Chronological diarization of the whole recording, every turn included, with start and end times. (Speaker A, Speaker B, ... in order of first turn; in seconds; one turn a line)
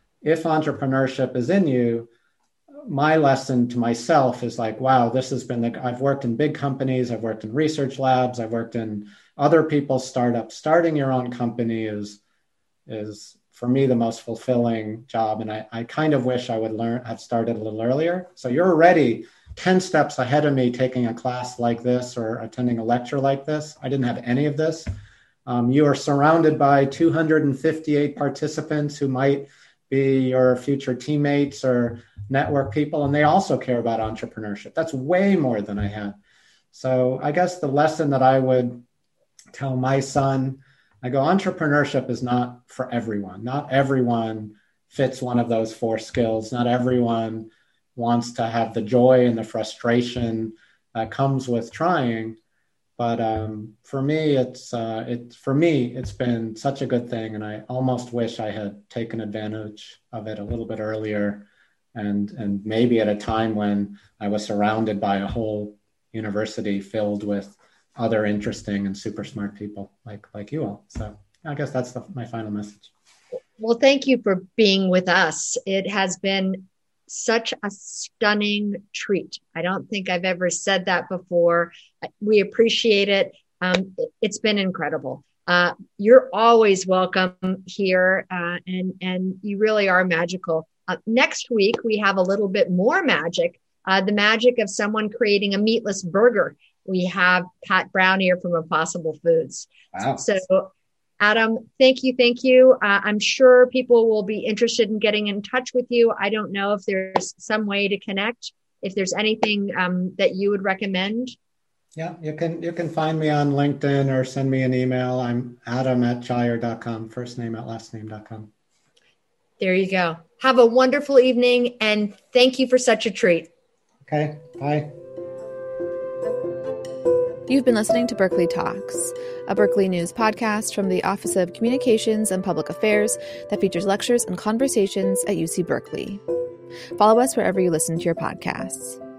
Speaker A: 0.2-2.1
Speaker A: 2.9-12.2
Speaker A: 12.9-24.9
Speaker A: 25.5-36.2
Speaker A: 36.7-38.8
Speaker A: 39.5-52.4
Speaker A: 53.0-72.9
Speaker B: 73.6-111.3
Speaker A: 99.9-100.2
Speaker A: 112.0-118.5
Speaker B: 119.6-123.5
Speaker A: 124.1-124.9
Speaker C: 127.5-136.2
Speaker C: 137.0-139.0